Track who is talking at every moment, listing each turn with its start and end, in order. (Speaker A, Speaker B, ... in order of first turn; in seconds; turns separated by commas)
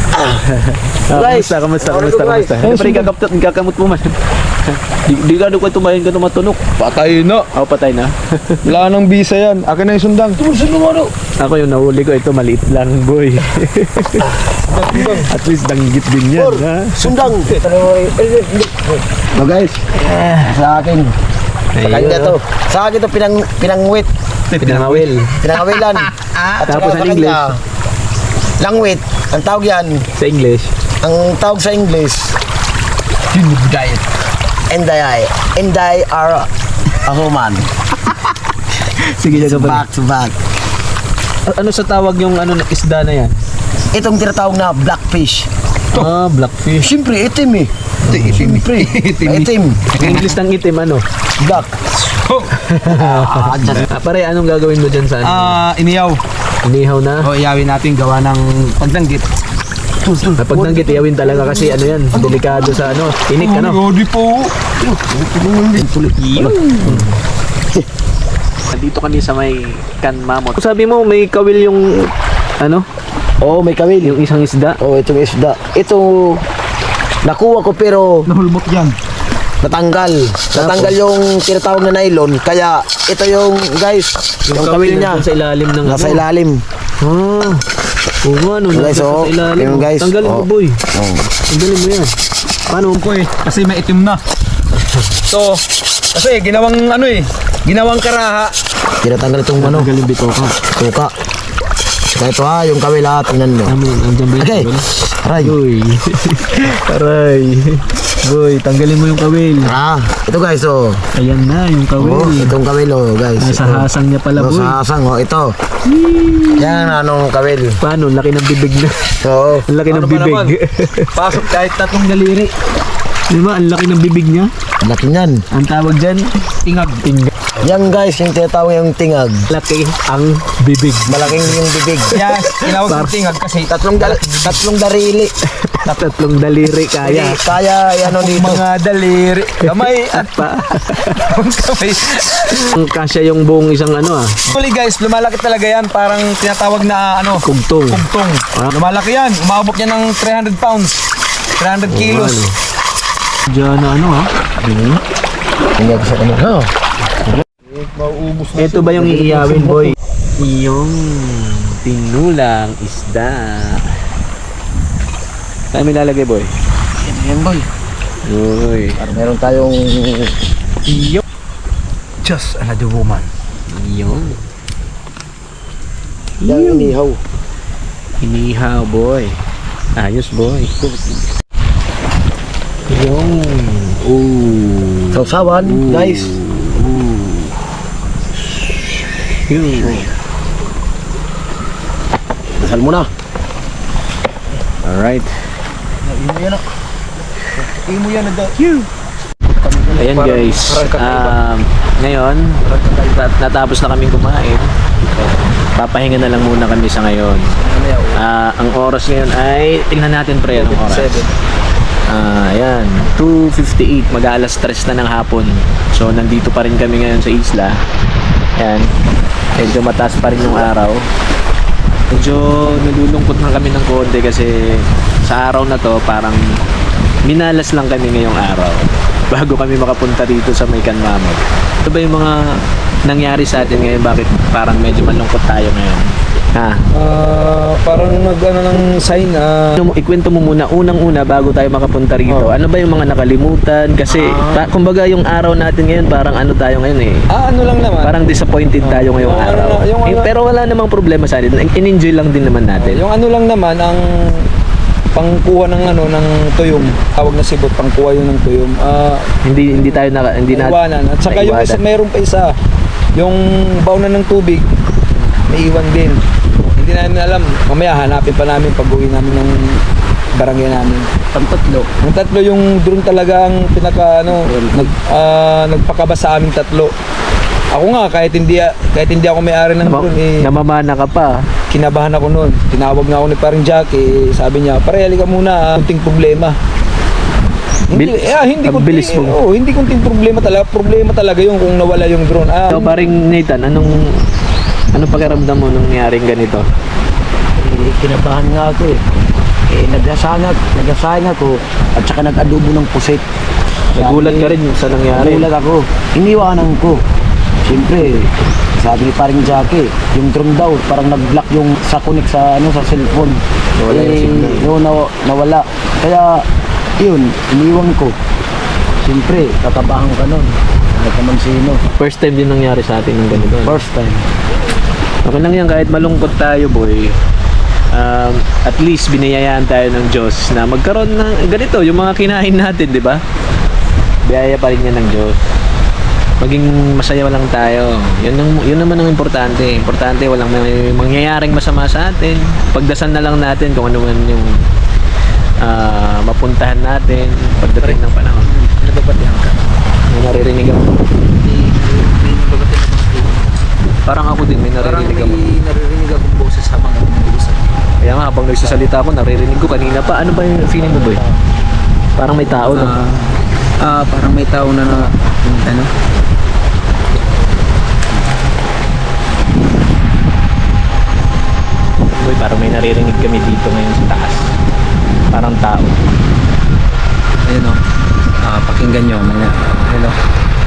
Speaker A: 0.1-0.4, Speaker B: 0.4-6.7, Speaker A: 1.1-2.9, Speaker C: 2.6-3.1, Speaker C: 6.8-7.5, Speaker B: 7.5-8.7, Speaker C: 8.6-10.7, Speaker A: 10.7-11.1, Speaker B: 11.4-14.3, Speaker C: 14.5-15.3, Speaker B: 14.9-17.3, Speaker A: 16.3-19.8, Speaker B: 19.9-20.6, Speaker A: 20.4-21.1, Speaker B: 21.7-22.4, Speaker A: 21.8-24.1, Speaker C: 24.5-25.1, Speaker B: 24.6-25.4, Speaker A: 25.4-27.6, Speaker B: 26.6-27.5, Speaker A: 28.6-30.1, Speaker B: 30.1-30.7, Speaker A: 31.0-32.4, Speaker C: 33.3-34.0, Speaker A: 34.7-37.7, Speaker B: 38.9-39.8, Speaker A: 39.3-40.4, Speaker B: 41.5-43.3, Speaker A: 43.9-45.5, Speaker B: 45.9-46.9, Speaker A: 46.8-47.7, Speaker B: 48.0-48.7, Speaker C: 48.1-50.4, Speaker A: 48.4-49.9, Speaker B: 50.0-51.0, Speaker C: 51.4-52.5, Speaker B: 52.5-55.6, Speaker A: 52.9-53.9, Speaker C: 55.2-56.2, Speaker B: 56.6-57.3, Speaker C: 57.2-59.3, Speaker A: 60.0-60.5, Speaker B: 60.4-63.8, Speaker C: 60.5-62.8, Speaker C: 63.3-64.5, Speaker A: 64.8-67.0, Speaker B: 66.2-67.2, Speaker B: 68.7-72.8, Speaker A: 73.4-74.2, Speaker B: 74.0-74.8, Speaker A: 74.8-76.4, Speaker A: 77.2-78.3, Speaker C: 78.3-79.0, Speaker A: 79.6-85.3, Speaker B: 80.5-80.9, Speaker B: 84.4-86.2, Speaker A: 85.8-86.6, Speaker B: 87.0-87.7, Speaker B: 88.2-90.8, Speaker A: 88.7-91.2, Speaker B: 91.5-92.2, Speaker B: 92.7-93.2, Speaker C: 92.9-94.2, Speaker C: 95.2-98.5, Speaker A: 99.0-99.9, Speaker B: 99.6-100.6, Speaker A: 100.7-101.1, Speaker A: 102.1-103.8, Speaker B: 103.7-104.8, Speaker A: 104.4-105.6, Speaker B: 105.4-109.7, Speaker A: 109.6-111.0, Speaker B: 111.2-112.6, Speaker A: 112.0-115.5, Speaker B: 113.4-114.8, Speaker B: 115.9-116.9, Speaker A: 116.6-117.8, Speaker B: 117.8-121.1, Speaker A: 119.2-119.7, Speaker C: 119.9-120.5, Speaker C: 121.1-122.5, Speaker B: 123.3-124.5, Speaker A: 124.8-125.4, Speaker B: 125.5-126.3, Speaker C: 126.6-127.0, Speaker B: 126.9-127.3, Speaker A: 127.6-129.5, Speaker B: 129.5-131.6, Speaker A: 131.1-132.2, Speaker B: 132.1-133.2, Speaker C: 132.1-134.5, Speaker A: 133.7-135.3, Speaker B: 135.5-137.4, Speaker A: 137.0-138.6, Speaker C: 138.0-140.4, Speaker B: 140.1-141.2, Speaker C: 141.0-142.6, Speaker B: 142.6-144.4, Speaker C: 144.5-151.0, Speaker B: 147.4-148.0, Speaker C: 151.6-152.5, Speaker B: 151.9-152.5, Speaker B: 153.5-155.0, Speaker A: 155.8-156.7, Speaker C: 157.6-159.3, Speaker B: 158.6-163.9, Speaker A: 159.0-159.9, Speaker B: 165.7-166.5, Speaker A: 167.0-167.7, Speaker B: 168.2-169.0, Speaker A: 169.0-170.3, Speaker B: 170.9-171.2, Speaker C: 172.2-173.3, Speaker B: 173.7-174.4, Speaker B: 176.4-177.0, Speaker A: 176.4-177.2, Speaker B: 178.2-179.4, Speaker B: 179.9-180.7, Speaker B: 182.9-187.5, Speaker A: 185.1-186.4, Speaker B: 189.5-190.1, Speaker A: 192.6-193.1, Speaker B: 194.8-195.3, Speaker A: 196.0-196.6, Speaker A: 197.6-198.5, Speaker C: 199.6-201.4, Speaker B: 199.9-207.5, Speaker C: 202.7-203.2, Speaker C: 207.6-208.2, Speaker B: 208.2-211.2, Speaker C: 210.5-211.3, Speaker B: 212.1-217.8, Speaker B: 218.6-218.9, Speaker B: 219.6-221.0, Speaker B: 222.1-226.4, Speaker B: 227.2-232.5, Speaker B: 233.1-236.8, Speaker C: 236.9-239.8, Speaker B: 239.8-247.2, Speaker C: 244.1-244.6, Speaker C: 247.3-248.2, Speaker B: 248.0-253.0, Speaker C: 248.8-250.3, Speaker C: 252.7-254.5, Speaker C: 255.1-262.5, Speaker B: 259.4-261.8, Speaker C: 263.2-269.8, Speaker C: 270.3-276.9, Speaker A: 274.4-274.9, Speaker C: 277.7-280.5, Speaker B: 279.8-281.4, Speaker C: 281.7-286.6, Speaker C: 287.9-293.0, Speaker B: 287.9-289.4, Speaker B: 292.7-294.2, Speaker B: 294.9-296.6, Speaker A: 297.6-299.0, Speaker A: 299.7-303.2, Speaker B: 303.9-305.5, Speaker A: 304.0-304.5, Speaker A: 305.1-307.0, Speaker A: 307.6-316.4, Speaker B: 313.8-314.7, Speaker A: 317.0-318.1, Speaker A: 319.0-321.8, Speaker B: 322.0-323.8, Speaker A: 323.4-324.2, Speaker B: 325.2-327.2, Speaker B: 327.9-333.2, Speaker B: 334.2-335.4, Speaker B: 336.4-344.6, Speaker B: 345.6-348.5, Speaker C: 347.7-349.6, Speaker B: 350.1-351.0, Speaker C: 351.2-353.6, Speaker B: 354.1-355.4, Speaker C: 354.8-357.8, Speaker B: 358.0-361.2, Speaker C: 358.6-358.9, Speaker B: 362.2-363.0, Speaker C: 362.7-365.9, Speaker B: 372.2-374.5, Speaker B: 375.3-376.0, Speaker C: 377.4-377.8, Speaker C: 378.4-380.1